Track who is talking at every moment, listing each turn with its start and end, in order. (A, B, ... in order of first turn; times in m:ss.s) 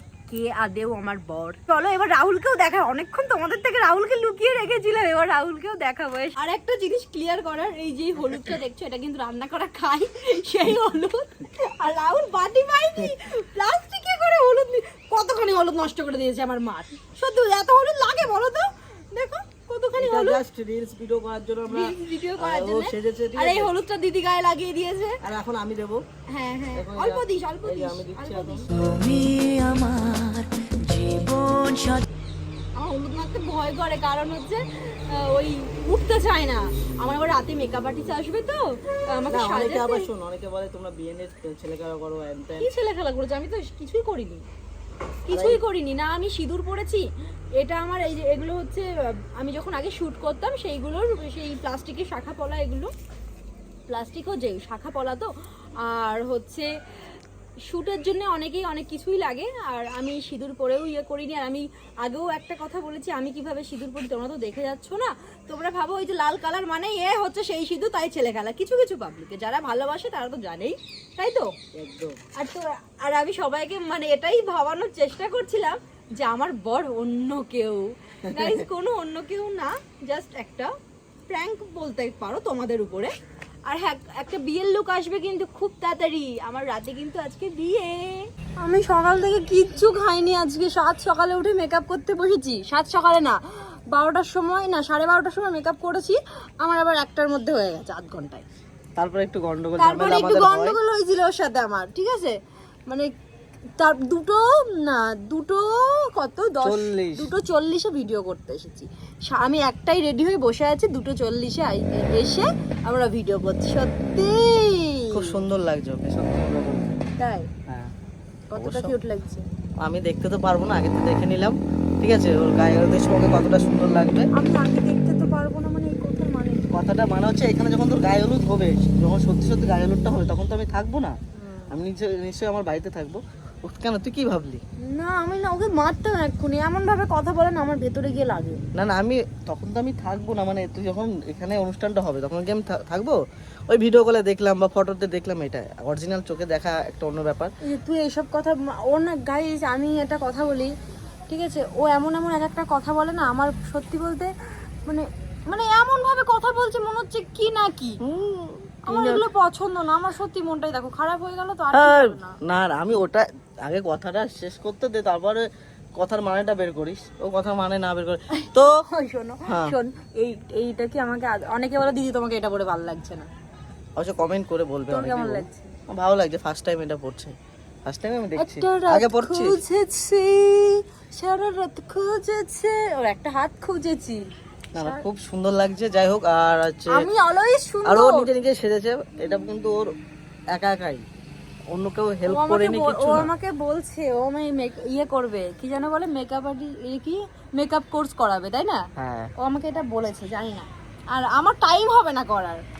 0:00.3-0:20.4 A
0:20.0-0:23.7 B
0:21.7-0:25.2 A
0:25.2-0:26.0 B
0:26.3-0:28.7 A
0:26.7-0:28.7 B
0:28.7-0:32.0 C
0:32.8-0:40.1 A
0:39.3-0:42.7 B
0:42.6-0:44.4 A
0:45.3-0:47.0 A
0:45.3-0:45.6 B
0:47.6-0:52.9 A
0:53.9-0:55.3 A
0:55.8-0:56.7 A
0:57.6-1:11.5 A
1:11.8-1:12.2 B
1:12.4-1:20.7 A
1:18.2-1:18.6 B
1:21.3-1:23.1 A
1:23.6-1:33.4 A
1:33.9-1:38.4 A
1:39.0-1:40.8 B
1:39.8-1:43.1 A
1:43.8-1:55.4 A
1:46.6-1:47.3 B
1:55.1-1:57.0 B
1:57.2-1:57.5 A
1:57.7-1:57.9 B
1:58.5-1:59.4 A
1:58.6-1:58.9 B
1:59.8-2:04.3 B
2:04.3-2:06.7 A
2:06.7-2:11.2 B
2:11.4-2:11.7 A
2:11.7-2:14.6 B
2:14.8-2:18.6 A
2:18.7-2:27.5 B
2:27.6-2:30.7 A
2:31.3-2:34.3 A
2:34.8-2:38.0 A
2:38.0-2:39.3 B
2:38.9-2:42.4 A
2:41.7-2:45.4 B
2:46.0-2:48.7 B
2:48.3-2:53.3 A
2:49.5-2:49.8 B
2:54.0-2:57.3 B
2:54.9-2:55.7 A
2:57.8-2:59.6 B
2:58.4-3:04.2 A
3:04.7-3:05.0 A
3:04.7-3:07.1 B
3:06.9-3:08.3 A
3:07.8-3:09.9 B
3:10.5-3:11.0 B
3:11.7-3:13.3 B
3:12.3-3:18.9 A
3:19.0-3:19.3 B
3:19.4-3:22.6 A